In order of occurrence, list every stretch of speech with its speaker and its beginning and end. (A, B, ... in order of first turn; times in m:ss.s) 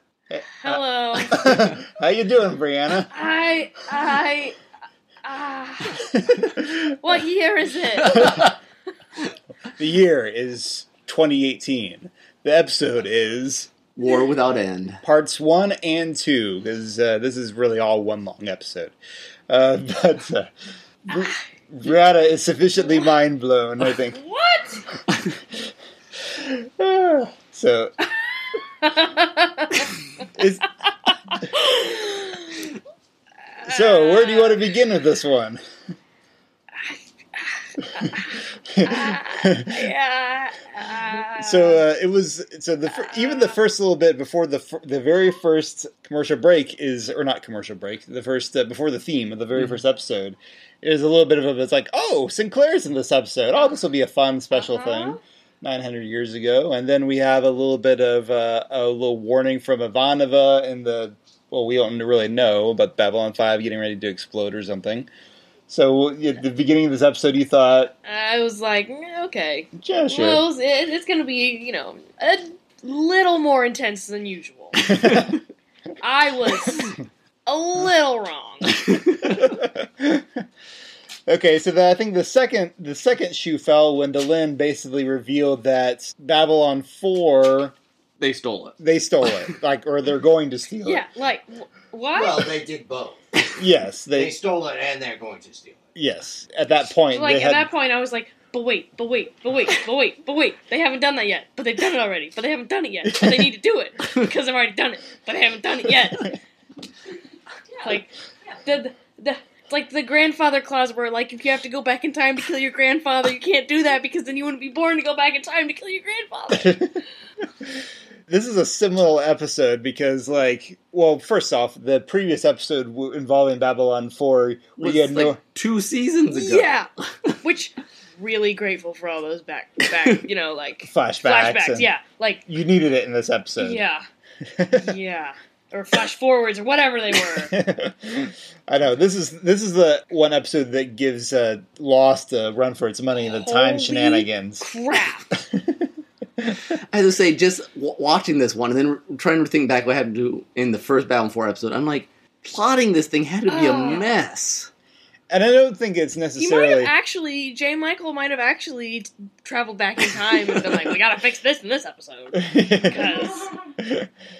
0:00.3-0:03.1 A
0:00.6-0:01.7 B
0:03.1-0:04.6 B
0:05.2-0:08.5 B
0:06.1-0:07.0 A
0:08.0-0:08.5 C
0:08.1-0:08.4 A
0:09.7-0:13.7 A
0:14.0-0:15.0 C
0:15.0-0:18.9 A
0:19.5-0:20.5 A
0:21.1-0:24.2 A
0:24.1-0:24.8 B
0:26.3-0:28.1 A
0:28.8-0:29.8 B
0:30.3-0:30.7 A
0:31.3-0:32.7 B
0:33.6-0:34.6 B
0:33.6-0:35.6 A
0:36.8-0:41.8 B
0:38.7-0:39.9 A
0:41.4-1:05.1 A
0:42.9-0:43.6 B
0:54.5-0:55.2 B
1:05.7-1:07.9 A
1:08.0-1:14.8 B
1:09.8-1:10.4 A
1:14.8-1:15.3 A
1:14.9-1:15.3 C
1:16.0-1:18.8 B
1:19.2-1:20.4 A
1:21.3-1:27.7 A
1:28.2-1:29.5 C
1:28.8-1:31.0 A
1:30.8-1:32.4 B
1:32.1-1:33.5 D
1:33.6-1:34.3 A
1:34.1-1:35.8 D
1:35.9-1:37.7 A
1:37.1-1:46.3 B
1:43.1-1:43.4 A
1:47.8-1:56.8 B
1:56.5-1:57.0 A
1:58.3-2:05.4 A
2:04.8-2:07.4 C
2:06.3-2:06.9 B
2:07.4-2:12.4 B
2:09.9-2:10.2 C
2:10.8-2:11.9 A
2:12.5-2:13.8 A
2:13.6-2:14.0 B
2:14.5-2:14.9 A
2:14.8-2:17.5 B
2:17.5-2:24.7 A
2:23.2-2:25.3 B
2:25.3-2:25.8 A
2:26.9-2:34.7 C
2:33.5-2:34.1 B
2:35.3-2:36.9 A
2:36.4-2:43.5 B
2:42.3-2:44.1 A